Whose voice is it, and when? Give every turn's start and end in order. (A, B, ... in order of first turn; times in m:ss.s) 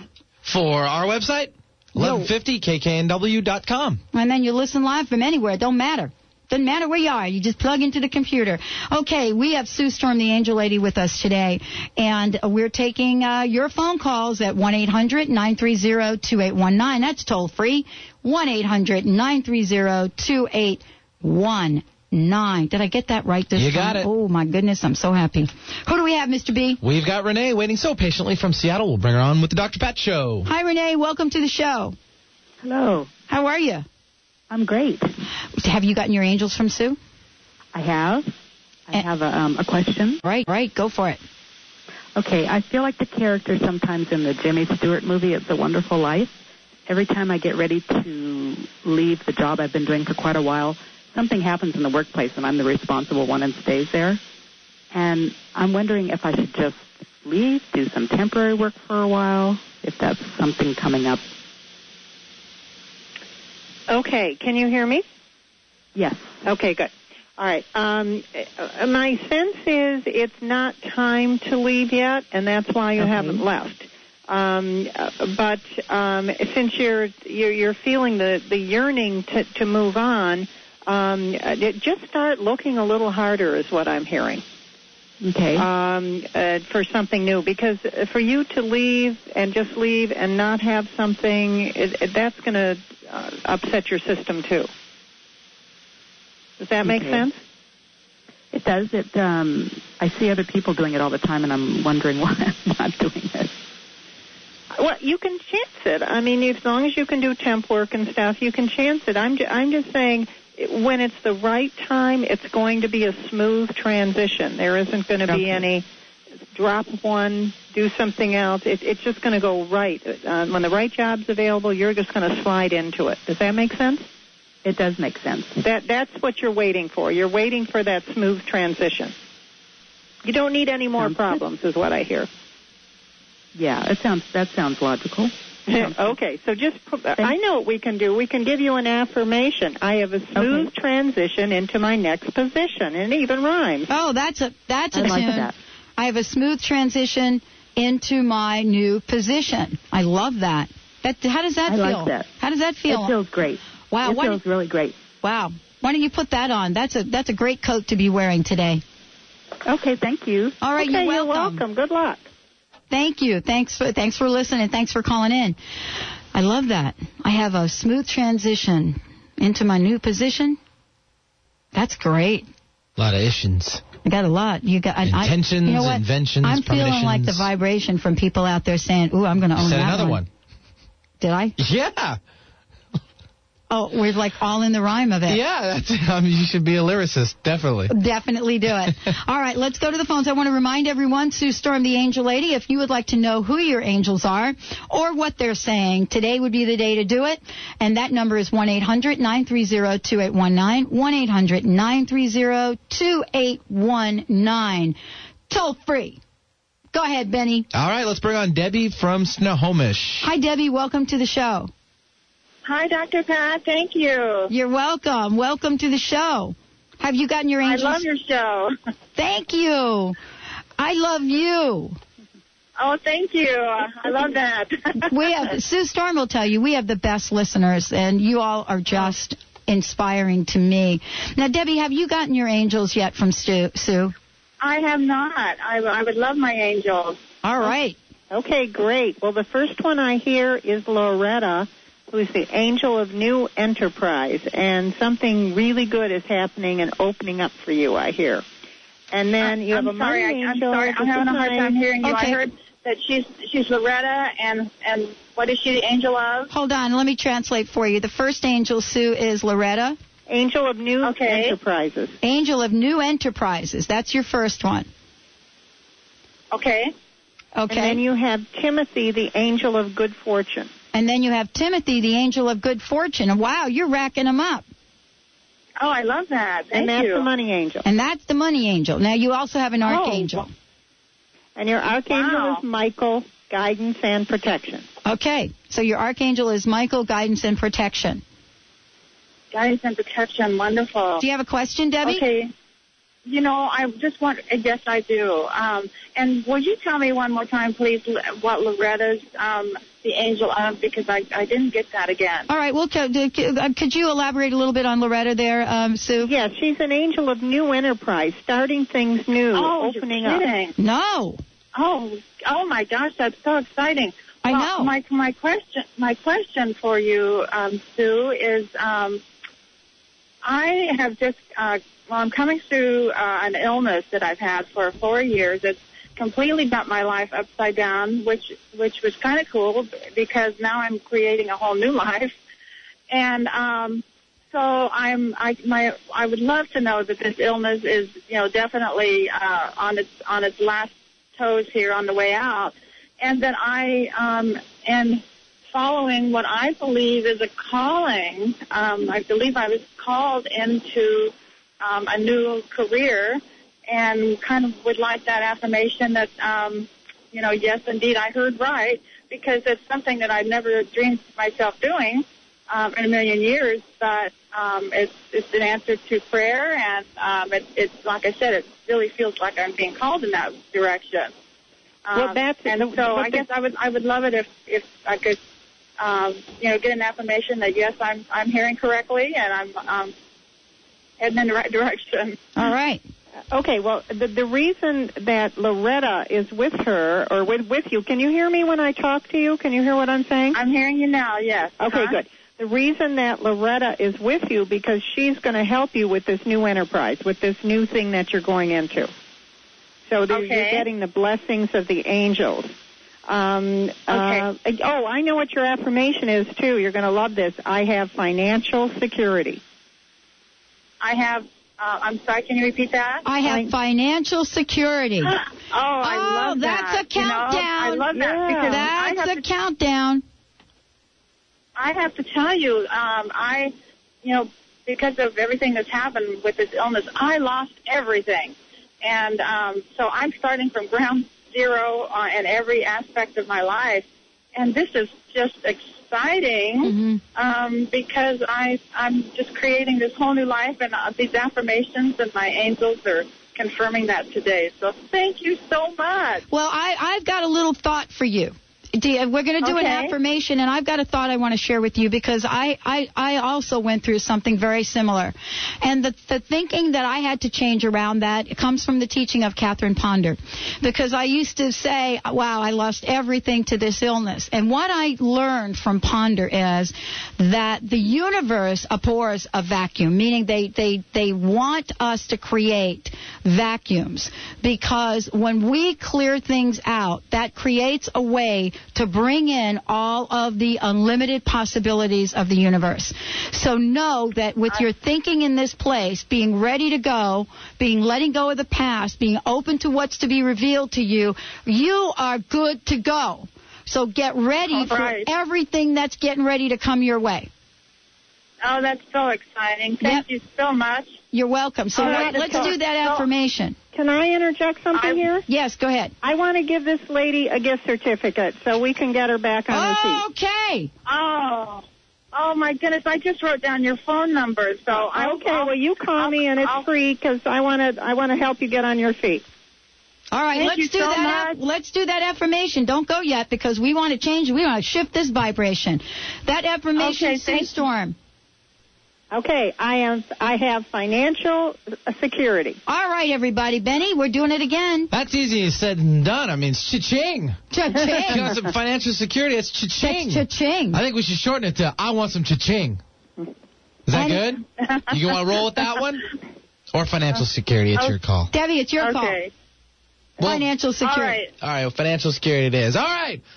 0:00.4-0:04.0 A
0:02.0-0:02.3 B
0:04.1-0:26.8 B
0:23.6-0:24.1 A
0:26.8-0:30.5 A
0:30.4-0:32.0 B
0:32.6-0:33.1 C
0:33.3-0:33.8 B
0:34.5-0:35.1 C
0:35.6-0:37.0 B
0:37.7-0:38.3 C
0:38.9-0:40.2 C
0:40.2-0:41.2 B
0:42.2-0:46.3 C
0:46.9-0:54.2 C
0:54.9-1:01.2 C
1:03.9-1:05.0 D
1:05.9-1:06.3 C
1:06.4-1:24.4 D
1:13.0-1:13.4 C
1:25.2-1:25.7 C
1:25.6-1:34.7 D
1:36.6-1:37.4 D
1:36.8-1:37.2 C
1:38.5-1:43.5 C
1:44.7-1:55.8 D
1:55.2-1:55.6 C
1:56.5-2:04.0 D
2:04.6-2:05.6 C
2:05.6-2:09.1 D
2:10.2-2:12.3 D
2:11.0-2:11.4 C
2:13.5-2:16.2 C
2:15.7-2:23.9 D
2:20.3-2:20.7 C
2:23.9-2:33.1 B
2:24.9-2:25.5 C
2:31.6-2:32.3 C
2:32.9-2:35.0 C
2:33.9-2:34.4 B
2:35.2-2:38.8 B
2:39.6-2:40.6 C
2:40.6-2:41.6 B
2:40.8-2:42.2 D
2:42.9-2:45.6 B
2:46.3-2:50.6 B
2:51.7-2:52.4 B
2:53.0-2:53.8 A
2:54.0-3:00.2 B
2:55.0-2:57.5 A
2:59.6-3:00.3 A
3:01.2-3:01.5 B
3:01.6-3:02.2 A
3:03.7-3:05.4 B
3:05.3-3:07.9 A
3:07.9-3:25.0 B
3:25.5-3:26.2 B
3:26.9-3:27.7 B
3:27.7-3:30.3 A
3:30.2-3:31.7 B
3:32.6-3:34.5 E
3:34.5-3:38.0 B
3:37.6-3:38.7 E
3:39.2-3:40.2 B
3:40.8-3:42.0 B
3:42.8-3:45.0 E
3:45.0-3:54.1 B
3:54.6-3:57.2 E
3:57.4-3:58.0 B
3:58.3-4:08.4 D
4:09.1-4:11.8 D
4:09.4-4:16.5 E
4:12.0-4:12.4 B
4:16.5-4:20.0 B
4:20.3-4:22.2 D
4:21.0-4:21.6 E
4:22.2-4:24.9 B
4:26.5-4:26.9 E
4:27.6-4:28.0 B
4:27.7-4:30.7 D
4:30.9-4:34.6 B
4:35.8-4:37.3 E
4:36.7-4:37.8 D
4:37.8-4:40.5 B
4:39.8-4:40.4 E
4:41.6-4:44.8 D
4:42.1-4:42.6 E
4:45.0-4:48.2 B
4:49.5-4:51.2 E
4:51.2-4:52.2 B
4:52.0-4:52.5 E
4:53.2-5:02.5 E
5:02.5-5:06.3 B
5:06.2-5:10.5 D
5:09.5-5:10.7 E
5:10.8-5:11.4 B
5:11.7-5:19.2 E
5:14.4-5:14.9 B
5:20.4-5:32.3 E
5:33.1-5:45.2 E
5:45.7-6:11.3 E
6:12.1-6:15.4 E
6:12.1-6:13.5 D
6:16.0-6:20.1 E
6:21.2-6:22.5 E
6:22.6-6:23.0 B
6:23.5-6:30.6 D
6:30.5-6:32.2 E
6:31.8-6:39.1 D
6:40.1-6:42.7 D
6:40.3-6:40.8 E
6:43.2-6:49.6 D
6:44.1-6:44.4 E
6:51.0-6:53.2 E
6:53.2-6:55.4 B
6:53.4-6:53.7 D
6:55.2-6:59.4 E
6:56.0-7:00.2 B
6:58.1-6:58.9 D
7:01.8-7:03.7 E
7:04.2-7:26.4 E
7:16.8-7:17.2 B
7:26.5-8:17.5 B
7:29.6-7:30.1 E
8:14.7-8:15.3 E
8:18.6-8:21.2 E
8:20.0-8:20.2 B
8:21.3-8:23.8 B
8:22.0-8:23.2 E
8:22.0-8:22.7 D
8:23.9-8:25.4 D
8:24.9-8:25.3 E
8:25.5-8:26.1 B
8:26.2-8:30.2 D
8:29.7-8:30.9 B
8:31.0-8:36.8 E
8:34.9-8:39.4 D
8:40.3-8:48.2 B
8:40.5-8:41.6 E
8:47.0-8:47.7 E
8:49.3-8:52.8 D
8:52.9-8:55.1 B
8:55.1-8:57.6 A
8:57.7-8:58.6 B
8:58.1-9:03.0 A
9:00.0-9:01.0 B
9:04.1-9:06.2 A
9:04.1-9:04.5 B
9:04.9-9:05.2 E
9:06.9-9:08.5 A
9:08.5-9:09.4 B
9:09.0-9:09.5 E
9:10.4-9:11.4 B
9:11.0-9:11.5 E
9:11.6-9:13.4 A